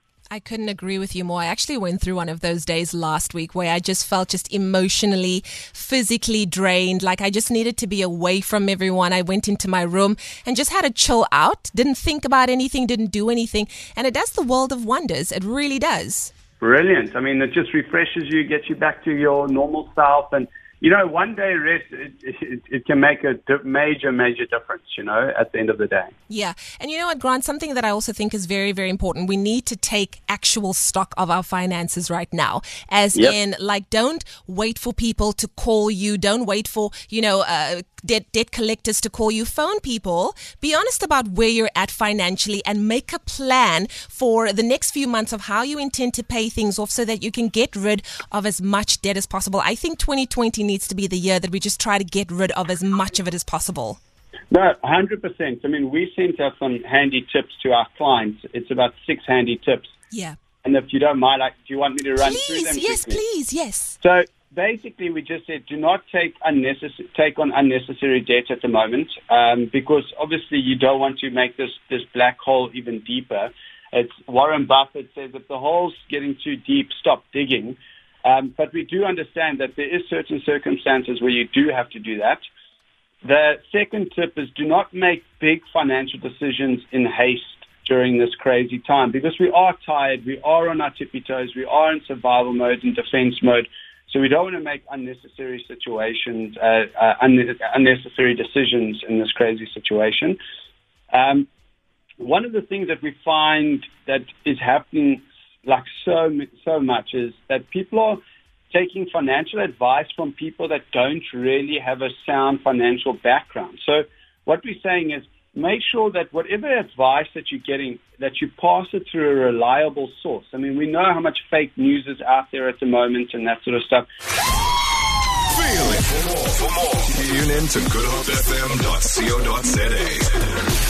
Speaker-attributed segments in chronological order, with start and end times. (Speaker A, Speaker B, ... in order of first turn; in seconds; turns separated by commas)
Speaker A: 0.3-16.3, Speaker B: 16.6-26.1, Speaker A: 26.3-54.0, Speaker B: 54.5-59.9, Speaker A: 60.1-60.4, Speaker B: 60.6-63.2, Speaker A: 62.2-64.0, Speaker B: 64.0-82.4, Speaker B: 83.2-100.4, Speaker B: 101.1-101.5, Speaker B: 102.2-108.2, Speaker B: 108.7-124.1, Speaker C: 125.5-130.5